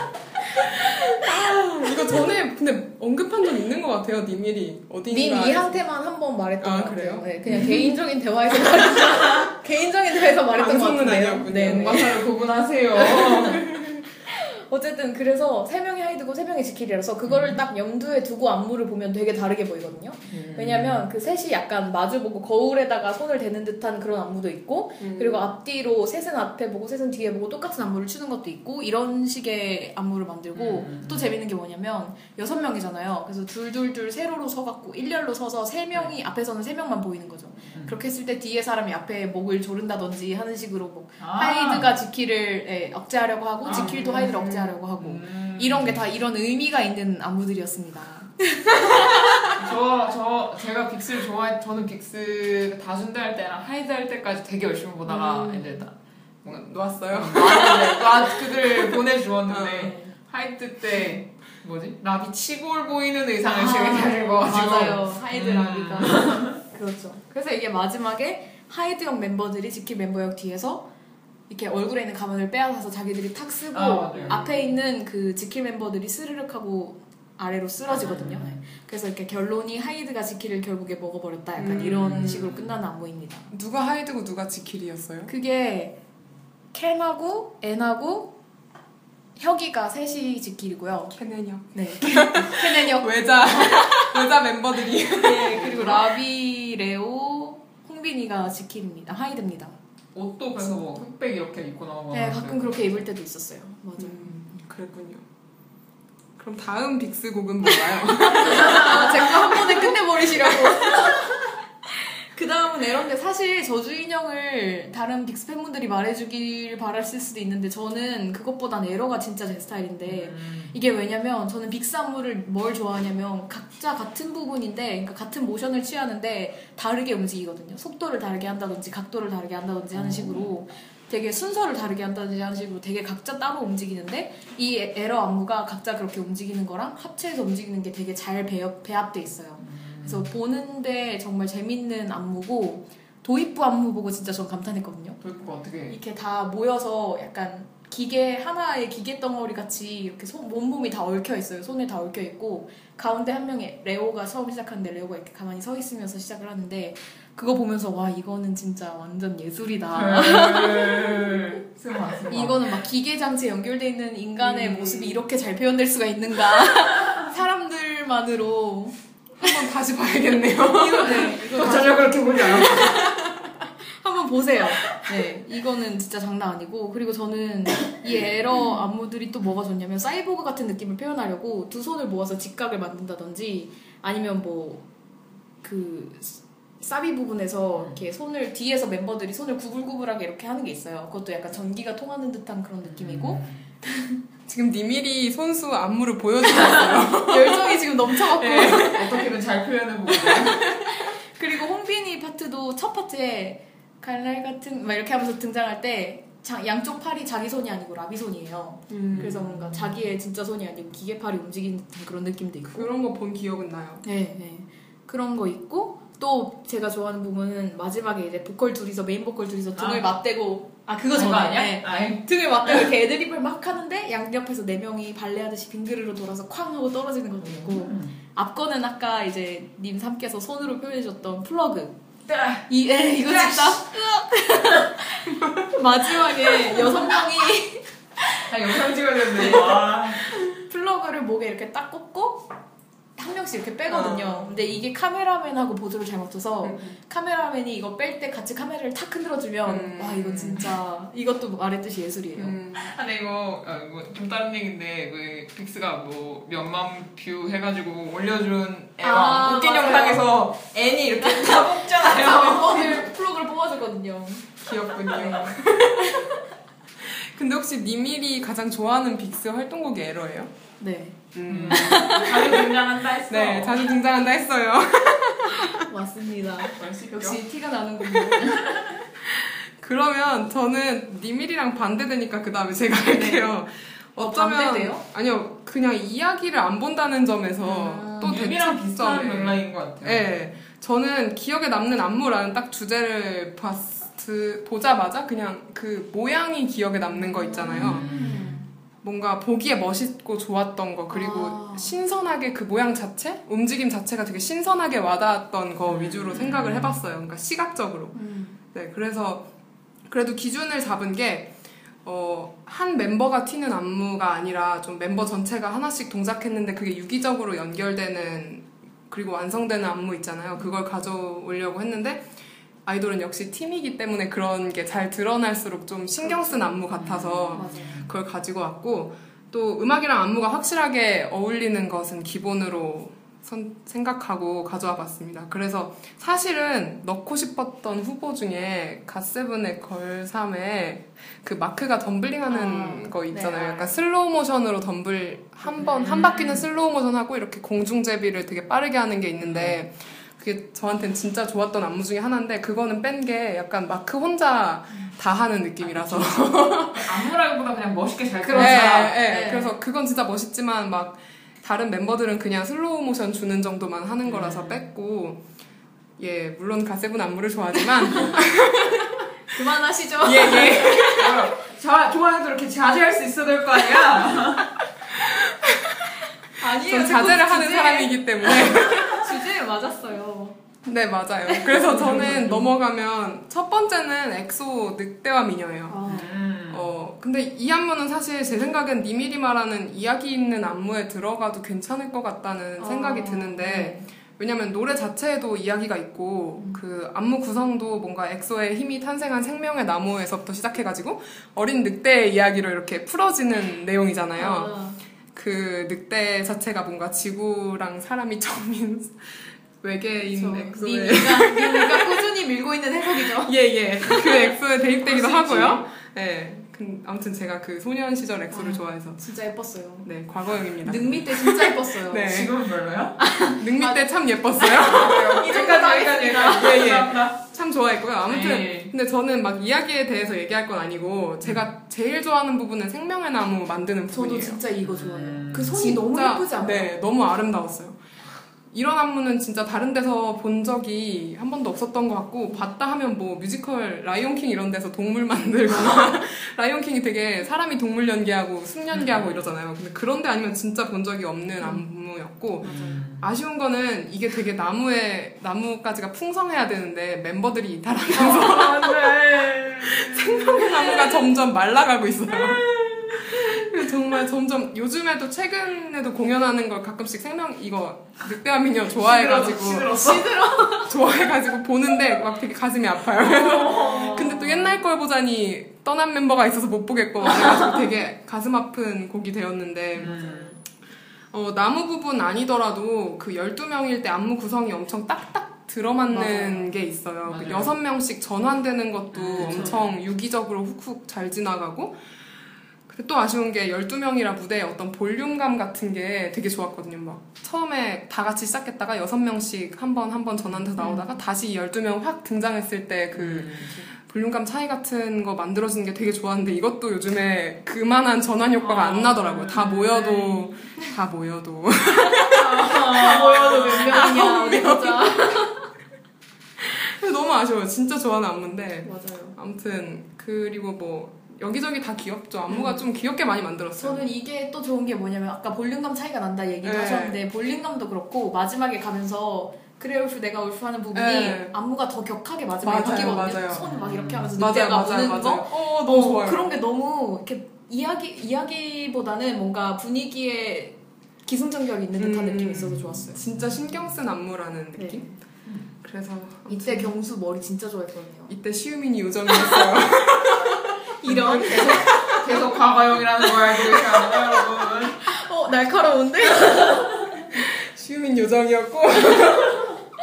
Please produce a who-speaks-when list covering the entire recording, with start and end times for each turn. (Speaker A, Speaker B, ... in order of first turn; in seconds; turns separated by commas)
Speaker A: 0.6-5.8, Speaker B: 5.1-12.2, Speaker A: 6.6-7.3, Speaker A: 9.1-9.4, Speaker A: 10.5-12.3, Speaker C: 11.6-13.7, Speaker B: 13.0-49.6, Speaker C: 17.3-17.6, Speaker C: 20.3-21.0, Speaker A: 25.0-25.4, Speaker C: 30.6-31.3, Speaker C: 41.2-41.9, Speaker C: 43.6-46.0, Speaker A: 44.0-44.3, Speaker C: 49.5-66.6, Speaker A: 55.3-55.7, Speaker A: 56.5-58.7, Speaker B: 57.5-58.3, Speaker A: 59.5-59.9, Speaker B: 59.8-60.1, Speaker B: 63.5-70.9, Speaker B: 71.5-83.5, Speaker C: 73.7-74.5, Speaker C: 77.9-78.6, Speaker A: 81.6-82.4, Speaker C: 81.6-82.8, Speaker A: 83.5-85.3, Speaker B: 85.3-86.0, Speaker B: 86.7-88.4, Speaker B: 89.4-91.2, Speaker A: 91.1-96.0, Speaker B: 91.7-94.2, Speaker B: 95.2-99.8, Speaker C: 100.2-103.0, Speaker B: 102.1-104.6, Speaker A: 104.0-105.2, Speaker A: 106.4-111.1, Speaker B: 108.2-111.5, Speaker B: 112.3-145.2, Speaker C: 120.1-120.7, Speaker C: 129.9-130.5, Speaker C: 139.6-140.3, Speaker C: 145.2-146.0, Speaker B: 145.9-161.5, Speaker C: 159.9-162.7, Speaker B: 162.3-168.9, Speaker A: 164.4-165.2, Speaker A: 169.4-171.5, Speaker B: 170.7-173.3, Speaker C: 171.4-173.1, Speaker B: 173.9-184.8, Speaker B: 185.6-193.5, Speaker C: 192.8-193.6, Speaker A: 194.5-197.9, Speaker B: 196.6-199.3, Speaker C: 198.4-200.6, Speaker B: 200.2-212.9, Speaker C: 208.9-210.0, Speaker A: 212.7-214.0, Speaker B: 214.0-232.0, Speaker C: 219.8-220.1, Speaker C: 221.1-222.3, Speaker C: 227.4-228.2, Speaker C: 232.3-232.7, Speaker B: 232.7-242.5, Speaker C: 233.2-233.9, Speaker A: 235.3-235.8, Speaker C: 238.5-240.3, Speaker B: 243.2-252.6, Speaker A: 243.9-244.6, Speaker A: 246.6-247.0, Speaker A: 249.7-250.7, Speaker A: 252.4-252.9, Speaker C: 252.8-263.1, Speaker B: 259.0-260.2, Speaker B: 261.2-264.5, Speaker A: 264.6-266.3, Speaker B: 265.1-266.4, Speaker A: 267.0-270.5, Speaker B: 270.8-272.7, Speaker A: 271.3-272.6, Speaker C: 271.5-273.8, Speaker A: 273.3-275.9, Speaker B: 275.7-278.9, Speaker C: 276.8-277.4, Speaker A: 279.2-298.1, Speaker B: 283.1-283.5, Speaker B: 284.2-285.0, Speaker B: 287.6-288.4, Speaker C: 288.2-290.3, Speaker B: 297.3-298.7, Speaker C: 297.7-298.6, Speaker A: 299.0-308.2, Speaker B: 301.1-301.9, Speaker C: 305.9-307.0, Speaker B: 308.1-308.6, Speaker A: 308.7-309.5, Speaker A: 310.1-322.3, Speaker A: 322.9-357.3, Speaker B: 326.2-326.6, Speaker C: 327.0-328.1, Speaker B: 327.6-328.1, Speaker B: 342.5-343.9, Speaker C: 345.9-346.7, Speaker C: 349.4-349.8, Speaker C: 355.8-359.1, Speaker B: 358.4-359.8, Speaker A: 358.5-365.4, Speaker C: 364.3-364.8, Speaker A: 366.2-369.2, Speaker B: 369.5-371.4, Speaker C: 370.2-374.7, Speaker A: 370.6-371.3, Speaker A: 375.1-379.4, Speaker B: 376.6-380.6, Speaker A: 380.9-386.1, Speaker B: 381.5-382.7, Speaker B: 385.9-386.3, Speaker C: 386.1-386.9, Speaker A: 386.7-404.7, Speaker B: 392.8-394.1, Speaker B: 404.4-405.0, Speaker A: 405.3-412.3, Speaker B: 410.3-415.8, Speaker A: 413.2-419.2, Speaker B: 418.5-420.1, Speaker A: 420.0-422.6, Speaker B: 420.8-422.5, Speaker C: 422.2-423.2, Speaker B: 423.2-427.1, Speaker A: 423.5-425.6, Speaker C: 424.8-427.4, Speaker A: 426.9-434.6, Speaker C: 428.3-428.9, Speaker B: 434.1-437.0, Speaker C: 434.8-435.8, Speaker A: 435.7-438.0, Speaker A: 438.7-462.7, Speaker C: 448.9-449.4, Speaker C: 452.6-453.3, Speaker B: 452.6-453.0, Speaker C: 458.1-461.2, Speaker C: 462.3-463.7, Speaker A: 463.2-470.0, Speaker C: 468.9-470.4, Speaker B: 469.9-471.0, Speaker A: 470.8-480.5, Speaker C: 473.2-474.7, Speaker B: 473.8-474.1, Speaker C: 480.0-480.6, Speaker A: 481.3-492.0, Speaker B: 486.1-486.7, Speaker C: 487.3-487.7, Speaker C: 489.1-489.9, Speaker A: 492.9-515.5, Speaker B: 500.8-501.1, Speaker C: 503.1-503.9, Speaker C: 508.6-510.7, Speaker B: 512.3-515.7, Speaker C: 512.3-514.1, Speaker A: 516.6-524.1, Speaker B: 518.8-519.4, Speaker B: 522.5-522.8, Speaker B: 523.8-543.2, Speaker A: 526.6-527.2, Speaker A: 530.9-531.5, Speaker A: 532.6-533.7, Speaker C: 533.6-534.3, Speaker A: 534.4-536.6, Speaker A: 542.0-545.1, Speaker B: 544.8-545.1, Speaker A: 545.8-546.9, Speaker B: 546.5-548.4, Speaker A: 548.3-552.4, Speaker B: 551.0-552.2, Speaker C: 551.5-555.1, Speaker B: 555.0-557.1, Speaker A: 557.3-559.8